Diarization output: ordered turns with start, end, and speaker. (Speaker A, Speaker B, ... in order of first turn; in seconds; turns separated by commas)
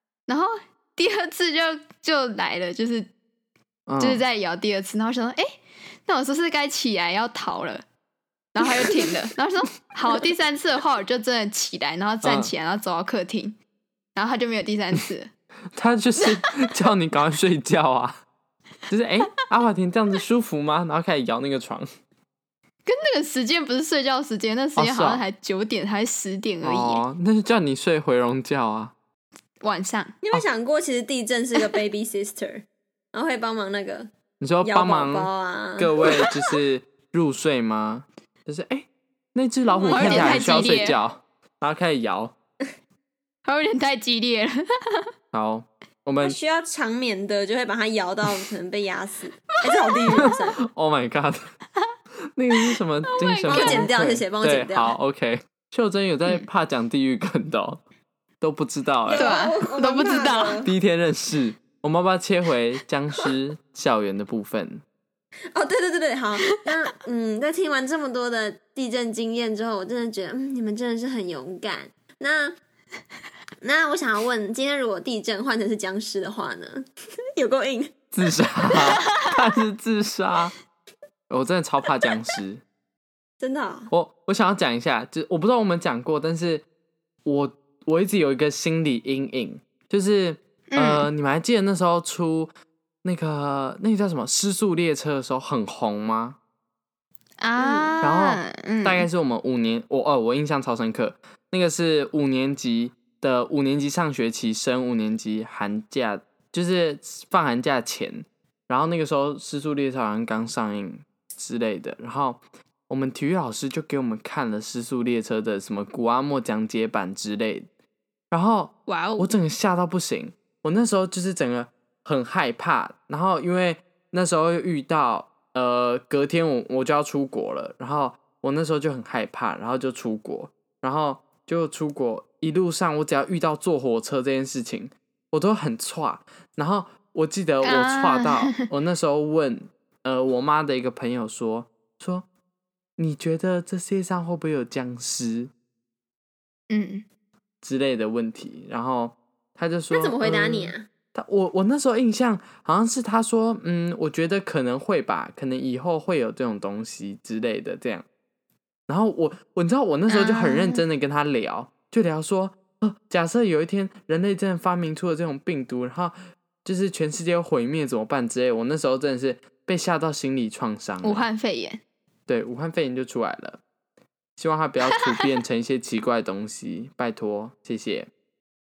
Speaker A: 0.3-3.1, Speaker B: 3.9-4.2, Speaker A: 4.0-5.5, Speaker A: 6.1-7.8, Speaker A: 8.6-13.6, Speaker B: 12.2-12.5, Speaker A: 14.2-15.3, Speaker B: 15.8-18.2, Speaker A: 16.2-16.5, Speaker B: 18.9-21.9, Speaker A: 22.9-27.0, Speaker B: 24.8-25.2, Speaker B: 26.6-28.9, Speaker A: 29.6-30.1, Speaker C: 30.2-34.1, Speaker B: 34.4-42.4, Speaker C: 34.6-36.1, Speaker C: 39.7-40.8, Speaker A: 39.9-41.0, Speaker A: 43.5-45.1, Speaker B: 45.3-46.4, Speaker C: 46.2-50.6, Speaker B: 50.2-51.5, Speaker B: 52.4-57.8, Speaker A: 52.6-53.9, Speaker C: 53.5-55.0, Speaker B: 58.4-59.3, Speaker C: 59.1-60.7, Speaker A: 59.1-60.6, Speaker B: 60.6-64.8, Speaker C: 65.5-72.6, Speaker C: 73.6-78.0, Speaker B: 78.1-80.5, Speaker B: 81.3-82.6, Speaker C: 83.4-83.9, Speaker B: 83.9-86.7, Speaker B: 87.2-92.5, Speaker A: 90.7-91.1, Speaker B: 93.0-96.4, Speaker A: 97.4-99.1, Speaker C: 97.6-98.0, Speaker B: 98.0-117.7, Speaker B: 118.3-142.3, Speaker A: 118.9-119.3, Speaker A: 137.6-138.7, Speaker B: 143.0-145.5, Speaker A: 146.7-147.1, Speaker B: 147.6-158.1, Speaker C: 149.9-150.9, Speaker B: 158.9-171.3, Speaker A: 160.1-160.8, Speaker A: 171.0-171.8, Speaker B: 172.3-173.6, Speaker B: 174.4-178.1